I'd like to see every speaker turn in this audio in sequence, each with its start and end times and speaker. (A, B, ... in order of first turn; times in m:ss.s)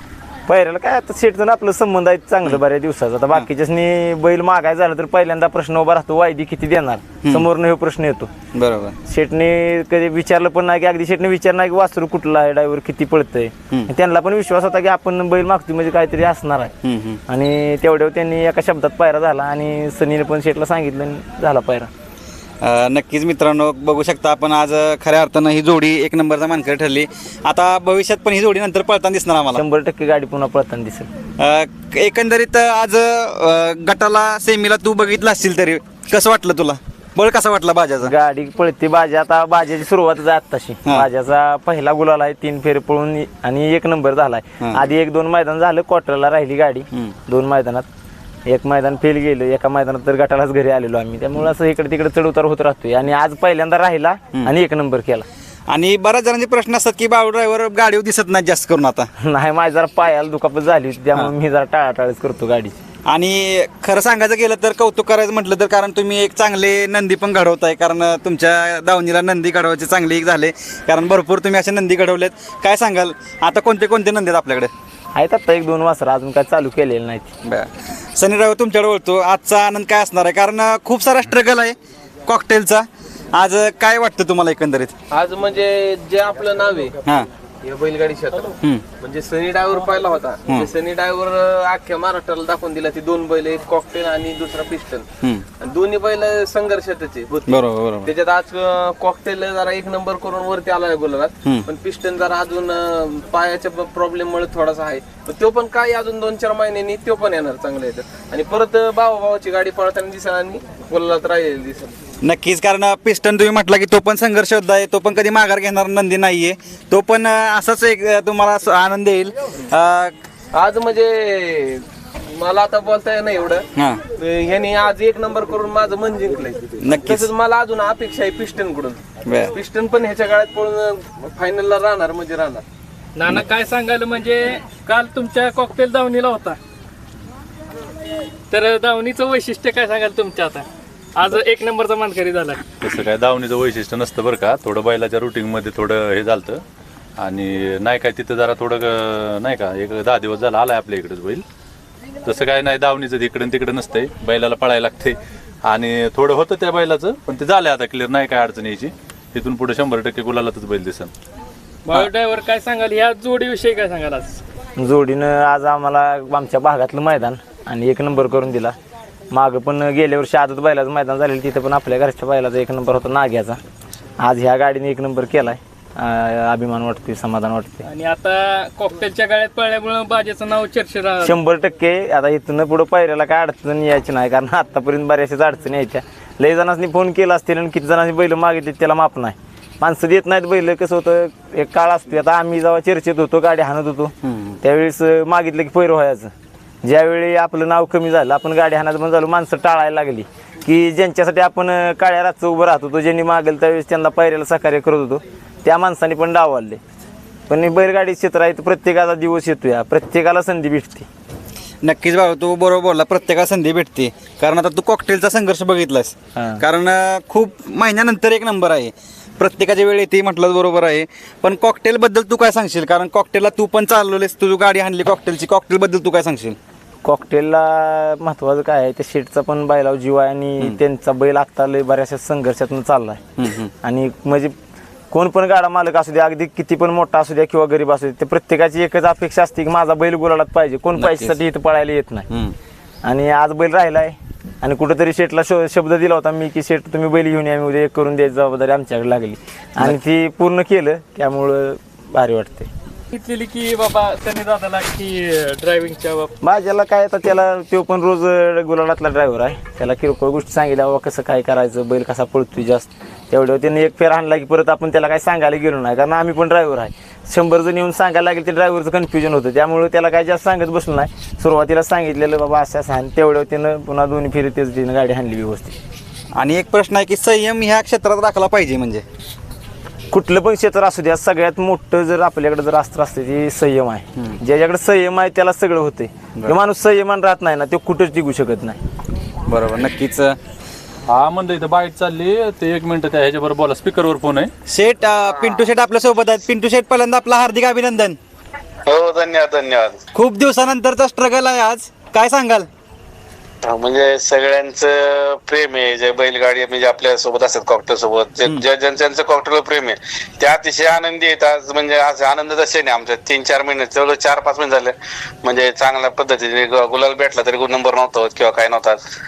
0:00.5-0:08.3 A
0:08.5-0:09.0 B
0:09.1-0:16.7 A
0:16.8-0:17.2 B
0:17.3-0:21.9 A
0:22.6-0:29.6 B
0:29.5-0:31.1 A
0:31.4-0:38.1 B
0:38.0-0:47.8 A
0:44.6-0:44.8 B
0:48.4-0:55.2 A
0:55.7-0:59.1 B
0:59.2-1:02.8 A
1:03.1-1:14.7 B
1:15.1-1:17.3 A
1:17.4-1:21.7 B
1:22.3-1:24.9 B
1:25.1-1:27.0 C
1:27.6-1:35.1 C
1:35.6-1:37.5 C
1:37.5-1:38.1 B
1:38.0-1:52.0 C
1:52.2-2:00.1 B
2:00.5-2:09.0 C
2:06.8-2:07.3 B
2:09.2-2:09.5 B
2:09.5-2:12.6 C
2:13.2-2:16.6 D
2:18.5-2:22.6 D
2:22.8-2:26.6 E
2:27.2-2:31.4 E
2:32.2-2:41.1 E
2:41.8-2:44.4 D
2:44.8-2:48.7 A
2:49.3-2:53.6 A
2:54.2-2:57.8 A
2:57.8-3:01.4 D
3:01.2-3:16.3 A
3:14.2-3:14.6 B
3:16.8-3:26.8 A
3:27.5-3:31.1 A
3:31.8-3:46.6 B
3:36.4-3:36.6 A
3:47.0-3:53.2 A
3:53.4-3:53.7 B
3:53.8-3:54.5 A
3:55.1-4:02.3 A
4:01.0-4:01.4 B
4:02.3-4:02.5 B
4:03.0-4:12.7 A
4:13.1-4:16.3 D
4:16.4-4:35.8 A
4:36.4-4:39.0 B
4:40.1-4:48.8 A
4:49.4-4:50.4 B
4:51.1-4:54.5 E
4:54.7-4:58.2 B
4:58.9-5:00.0 F
5:00.1-5:02.7 B
5:03.7-5:14.9 F
5:15.4-5:19.0 F